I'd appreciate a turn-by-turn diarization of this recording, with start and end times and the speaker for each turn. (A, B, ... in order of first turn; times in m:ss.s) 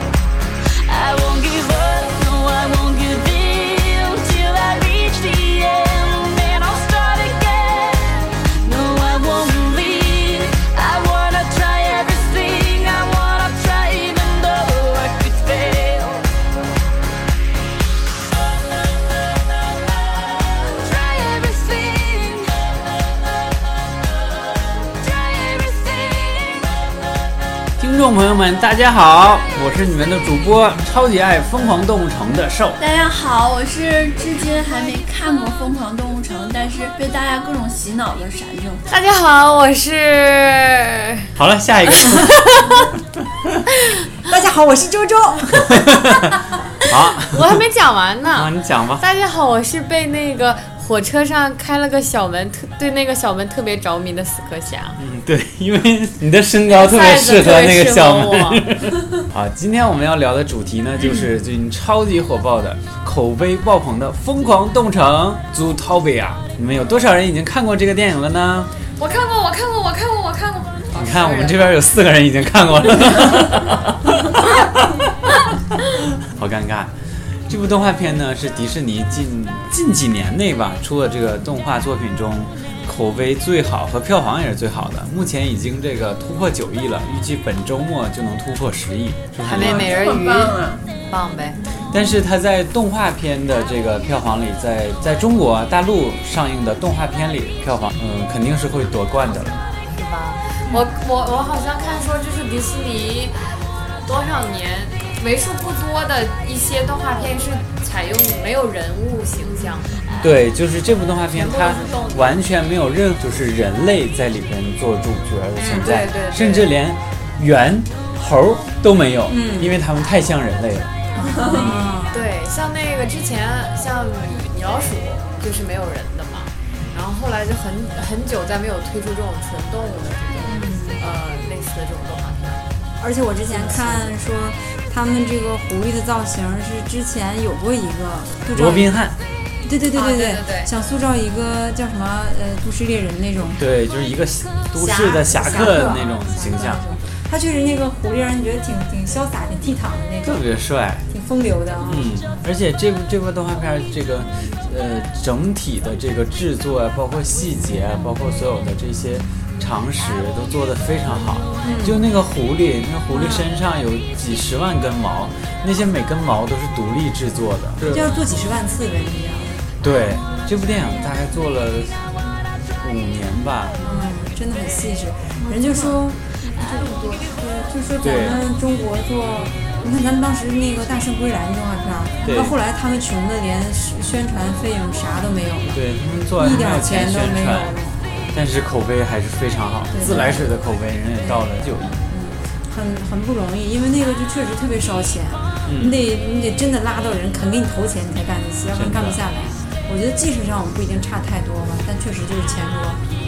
0:00.8-0:16.3 A
0:20.2-0:23.4 A
0:24.7-0:27.1 A
0:27.8-0:32.8 B
0:32.8-0:38.8 C
0:38.8-0:41.3 D
0:41.4-0:42.7 B
0:41.9-0:42.8 D
0:44.3-0:45.8 E
0:45.7-0:46.3 B
0:46.8-0:47.6 B
0:47.2-0:55.0 D
0:48.3-0:49.0 B
0:55.0-1:08.7 B
0:56.7-0:58.7 D
1:09.0-1:11.8 D
1:10.9-1:14.8 B
1:16.2-1:16.9 B
1:17.5-1:29.9 B
1:29.4-1:31.6 D
1:29.5-1:30.8 C
1:31.9-1:39.6 B
1:39.9-1:43.4 D
1:44.0-1:50.3 D
1:50.2-2:00.9 B
1:51.3-1:52.4 D
1:55.6-1:55.9 E
1:55.7-1:56.7 D
1:59.3-1:59.7 E
2:01.2-2:02.2 E
2:01.2-2:01.7 C
2:01.4-2:01.8 B
2:02.1-2:12.6 D
2:10.4-2:11.0 E
2:13.0-2:18.9 E
2:13.5-2:14.1 D
2:18.5-2:19.1 B
2:19.6-2:23.6 E
2:19.9-2:20.7 D
2:23.6-2:26.8 B
2:24.8-2:30.4 E
2:30.2-2:31.0 B
2:31.1-2:32.2 E
2:31.8-2:48.1 B
2:41.6-2:42.0 E
2:43.1-2:43.5 E
2:47.8-2:49.6 E
2:49.8-2:52.1 B
2:52.8-2:53.8 B
2:53.8-3:05.8 E
2:58.0-2:58.4 B
3:02.2-3:02.6 B
3:05.7-3:07.7 B
3:06.4-3:08.2 E
3:08.3-3:12.0 B
3:09.9-3:10.5 E
3:11.2-3:11.4 E
3:12.1-3:23.0 E
3:15.6-3:15.9 B
3:18.8-3:19.2 B